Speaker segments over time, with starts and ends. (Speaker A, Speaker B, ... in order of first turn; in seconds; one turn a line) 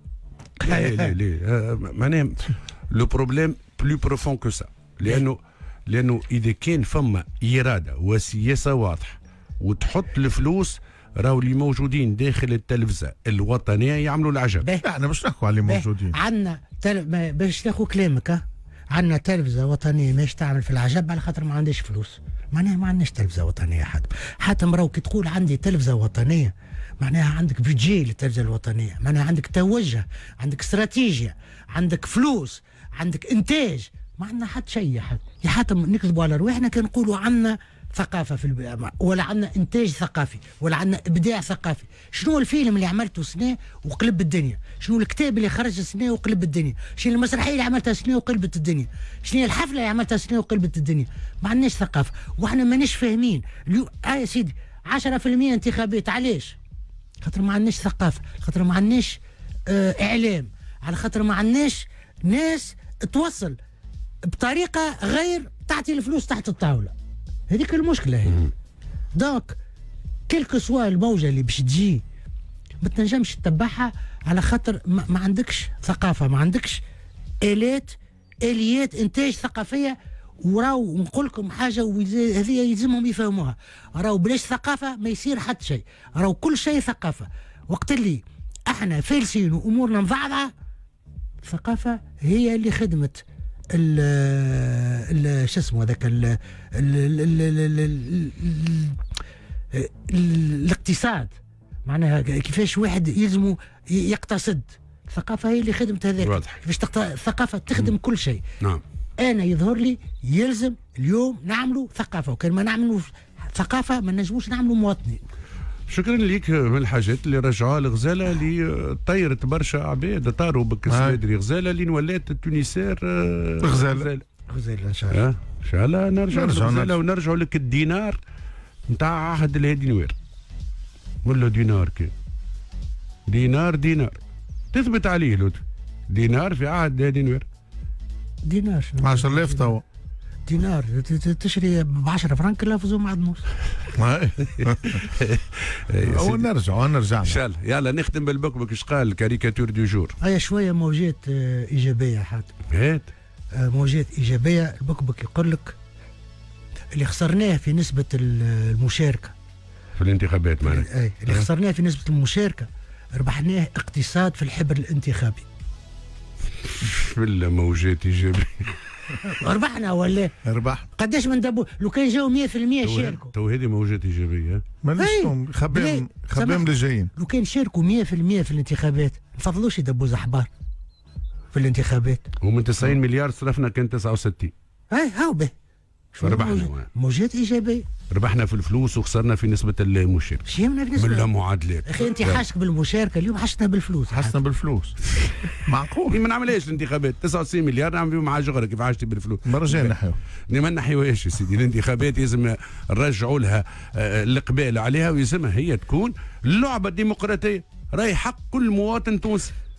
Speaker A: 0.6-14.7
Speaker B: 0.6-1.1
Speaker C: 14.8-16.1
Speaker B: 15.7-56.6
Speaker B: 57.2-63.6
Speaker B: 64.3-66.9
Speaker B: 67.5-68.5
Speaker B: 69.1-69.6
Speaker B: 70.3-72.0
Speaker B: 72.8-76.8
Speaker B: 77.4-90.5
Speaker B: 91.4-99.0
Speaker B: 99.7-101.3
Speaker B: 101.8-108.4
Speaker A: 106.2-106.5
Speaker B: 109.2-115.2
Speaker A: 115.9-124.2
Speaker C: 120.9-121.2
Speaker C: 123.6-124.1
Speaker B: 124.5-125.2
Speaker A: 125.1-128.2
Speaker C: 126.3-127.0
Speaker A: 128.9-130.1
Speaker A: 131.2-132.1
Speaker A: 133.3-134.2
Speaker A: 134.7-137.4
Speaker B: 138.4-139.7
Speaker C: 139.0-139.8
Speaker B: 140.4-143.4
Speaker C: 143.9-145.0
Speaker A: 144.5-146.5
Speaker C: 146.0-147.4
Speaker A: 147.2-150.1
Speaker B: 150.2-152.5
Speaker A: 152.7-153.1
Speaker B: 153.5-155.8
Speaker B: 156.9-159.3
Speaker A: 160.0-161.5
Speaker B: 160.6-165.4
Speaker A: 166.6-168.8
Speaker B: 169.2-170.3
Speaker C: 170.4-170.9
Speaker B: 170.9-173.3
Speaker A: 172.8-174.6
Speaker C: 174.8-177.1
Speaker B: 175.0-180.5
Speaker B: 181.5-182.3
Speaker A: 182.4-184.5
Speaker B: 184.9-185.5
Speaker B: 186.1-187.9
Speaker A: 186.2-186.9
Speaker A: 188.1-192.4
Speaker B: 190.5-191.3
Speaker B: 191.9-194.4
Speaker C: 194.1-195.0
Speaker A: 195.2-195.5
Speaker C: 195.6-196.2
Speaker A: 196.1-199.9
Speaker C: 199.4-200.2
Speaker A: 200.5-209.5